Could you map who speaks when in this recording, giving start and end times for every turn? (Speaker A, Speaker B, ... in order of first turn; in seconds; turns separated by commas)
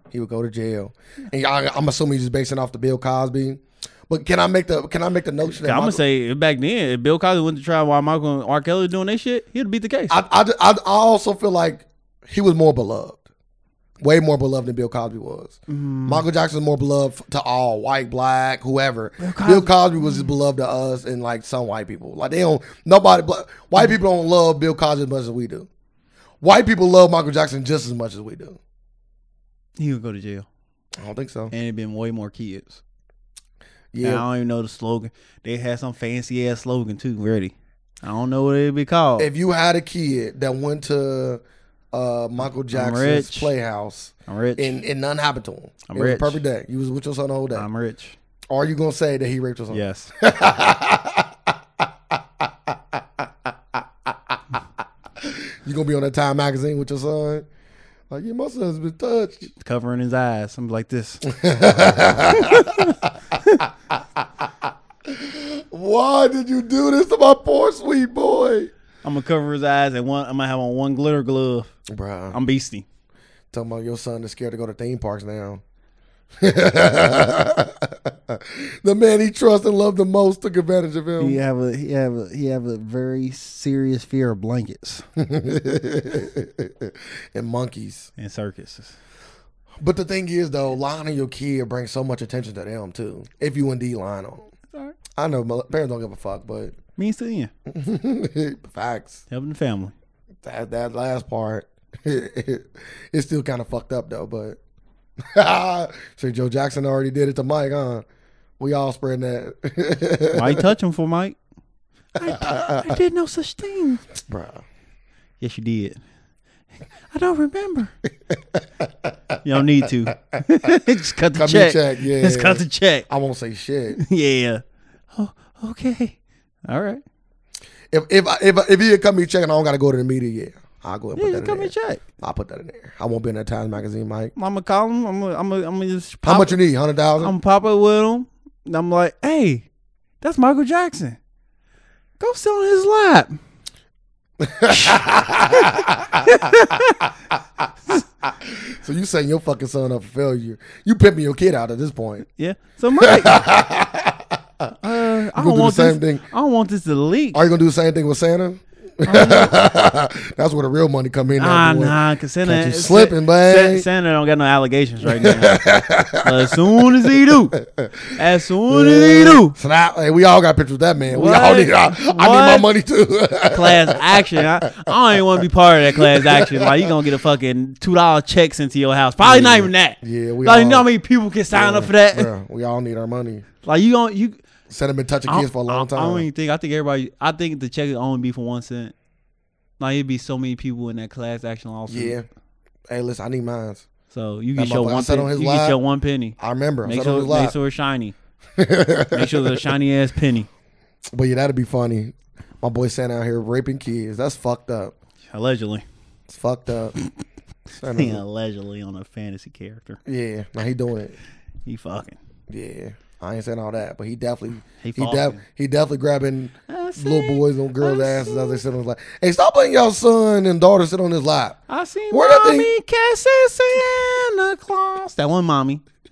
Speaker A: 0.1-6.0, Speaker B: 5.5-10.2, Speaker A: 10.1-13.2, Speaker A: 14.0-25.7, Speaker B: 15.7-16.2, Speaker B: 19.2-20.3, Speaker A: 26.4-28.6, Speaker B: 29.8-30.4, Speaker A: 31.0-31.5, Speaker B: 31.5-32.8, Speaker A: 33.9-34.3, Speaker B: 34.0-39.3, Speaker A: 39.2-41.4, Speaker A: 41.9-47.6, Speaker B: 42.7-43.5, Speaker B: 44.3-44.7, Speaker B: 45.9-46.4, Speaker B: 47.5-48.2, Speaker A: 48.5-51.5, Speaker B: 49.7-50.1, Speaker A: 52.4-53.5, Speaker A: 55.2-57.4, Speaker A: 58.1-59.5, Speaker B: 59.6-61.3, Speaker A: 61.3-63.7, Speaker B: 62.2-63.6, Speaker A: 65.1-68.7, Speaker B: 69.0-71.7, Speaker A: 71.9-72.4, Speaker B: 72.3-72.8, Speaker A: 73.5-75.6, Speaker A: 76.4-81.4, Speaker B: 81.2-85.0, Speaker A: 85.2-88.1, Speaker B: 88.2-89.0, Speaker A: 89.8-94.5, Speaker A: 95.2-96.8, Speaker B: 97.0-97.5, Speaker A: 97.7-99.2, Speaker B: 99.3-99.9, Speaker A: 100.4-104.6, Speaker A: 105.2-108.0, Speaker A: 108.6-110.7, Speaker B: 110.3-111.4, Speaker B: 112.2-114.0, Speaker A: 112.3-112.9, Speaker A: 114.3-114.6, Speaker B: 115.4-116.0, Speaker B: 117.1-117.9, Speaker A: 118.5-119.4, Speaker B: 119.4-123.1, Speaker A: 121.3-124.0, Speaker B: 123.9-124.6, Speaker B: 125.1-127.0, Speaker A: 127.9-134.3, Speaker B: 131.1-132.0, Speaker B: 134.4-136.6, Speaker A: 136.2-137.3, Speaker B: 137.2-139.7, Speaker B: 140.2-141.2, Speaker B: 142.2-143.4, Speaker A: 144.4-146.8, Speaker B: 144.7-147.1, Speaker A: 148.3-152.3, Speaker B: 152.4-153.4, Speaker A: 153.0-154.7, Speaker B: 154.8-157.4, Speaker A: 155.3-156.2, Speaker A: 157.3-163.9, Speaker B: 159.0-159.5, Speaker B: 161.4-165.6, Speaker A: 165.0-168.1, Speaker B: 166.2-167.6, Speaker B: 168.1-169.6, Speaker A: 168.7-174.9, Speaker B: 171.1-172.7, Speaker B: 173.5-182.3, Speaker A: 175.9-176.9, Speaker A: 179.2-180.9, Speaker A: 181.5-183.4, Speaker B: 183.6-184.4, Speaker A: 184.7-186.3, Speaker B: 185.3-188.9, Speaker B: 189.8-192.2, Speaker A: 191.9-192.3, Speaker A: 192.9-193.9, Speaker B: 194.1-198.1, Speaker A: 194.6-195.8, Speaker A: 196.4-197.6, Speaker A: 198.6-199.7, Speaker B: 199.1-200.5, Speaker A: 201.1-204.9, Speaker B: 205.3-205.8, Speaker A: 206.3-206.9, Speaker A: 207.8-208.2, Speaker B: 207.9-210.0, Speaker A: 210.1-211.2, Speaker B: 211.7-212.2, Speaker A: 212.5-221.6, Speaker B: 214.8-215.4, Speaker B: 216.7-218.6, Speaker B: 221.7-225.8, Speaker A: 222.1-222.7